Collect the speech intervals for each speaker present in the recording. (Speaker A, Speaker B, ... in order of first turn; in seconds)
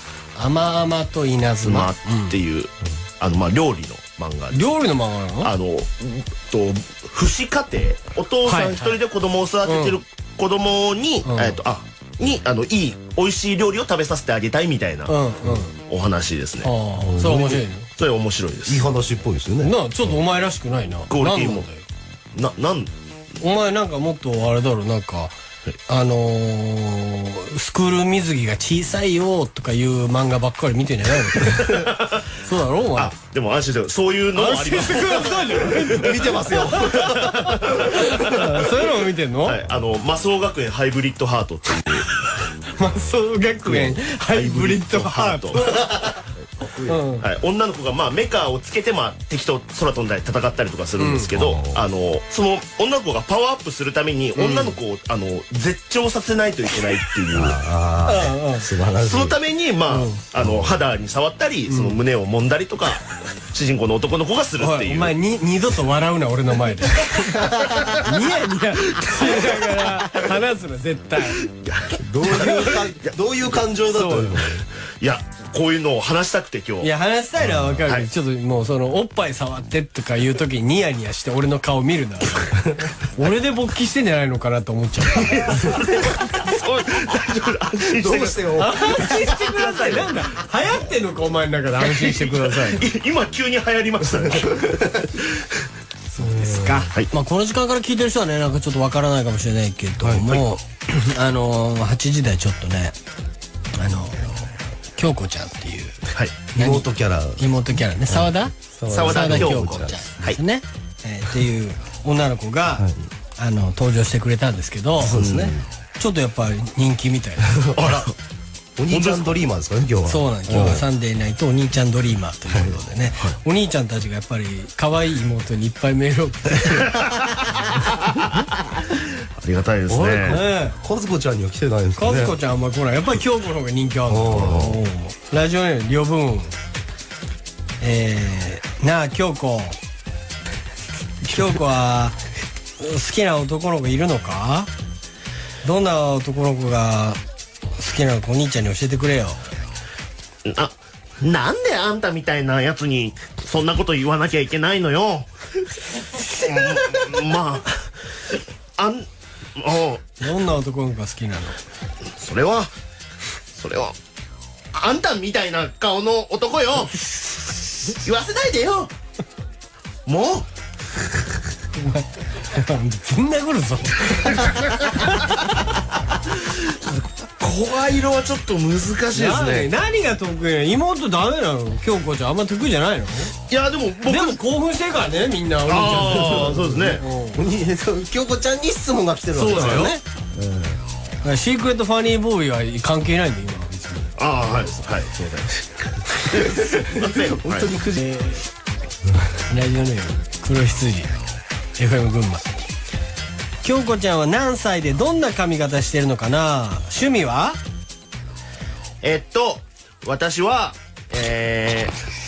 Speaker A: 0.3-2.4, 4.5-5.5, 8.4-9.0, 9.6-10.0, 11.2-11.6, 15.1-15.7, 16.6-17.9, 19.6-21.9, 23.4-25.3, 25.9-33.1, 34.3-39.6, 42.1-46.0, 46.9-47.3, 51.0-51.3, 54.3-54.7, 58.0-58.7, 59.9-60.2, 61.7-62.0, 64.6-71.4, 72.2-72.8, 73.9-74.6, 76.8-86.4, 88.5-92.9, 96.1-102.9, 103.7-106.0, 106.5-115.3, 116.0-117.6, 120.1-126.9, 130.3-130.8, 131.9-136.5, 137.8-139.8, 141.2-142.2, 142.8-144.7, 145.6-147.2, 147.8-149.4, 160.2-161.6, 166.9-168.0, 171.8-175.7, 179.1-183.3, 184.0-187.4, 189.3-190.0, 191.2-194.1, 197.9-198.4, 199.5-201.1, 201.8-202.6, 203.6-207.6
Speaker B: 1.6-4.8, 5.4-15.1, 15.9-16.7, 18.0-18.9, 21.1-21.7, 22.3-22.9, 31.8-32.2, 33.0-36.2, 36.8-38.6, 39.4-42.1, 43.6-46.1, 47.2-57.6, 59.0-65.1, 69.0-69.5, 71.4-73.1, 75.0-76.9, 77.7-78.1, 85.2-90.1, 91.8-95.5, 108.9-110.4, 115.1-115.5, 117.8-118.1, 118.9-119.4, 128.1-130.4, 134.3-134.8, 150.4-155.3, 156.1-160.2, 162.2-162.7, 163.5-163.9, 164.7-166.9, 167.9-168.9, 170.1-170.5, 176.3-179.7, 183.5-184.4, 185.7-187.0, 189.5-189.9, 194.2-197.7, 209.0-211.9
Speaker C: 17.0-17.6, 18.6-20.1, 35.8-37.7, 46.5-47.0, 51.3-51.8, 57.3-59.4, 60.4-60.7, 67.2-67.9, 71.9-74.6, 87.7-88.9, 94.2-95.2, 96.2-96.9, 100.0-100.4, 106.5-107.5, 108.1-110.0, 115.0-115.6, 117.5-118.1, 118.8-120.8, 129.9-132.3, 134.1-134.7, 141.3-141.6, 186.4-190.8, 196.3-198.1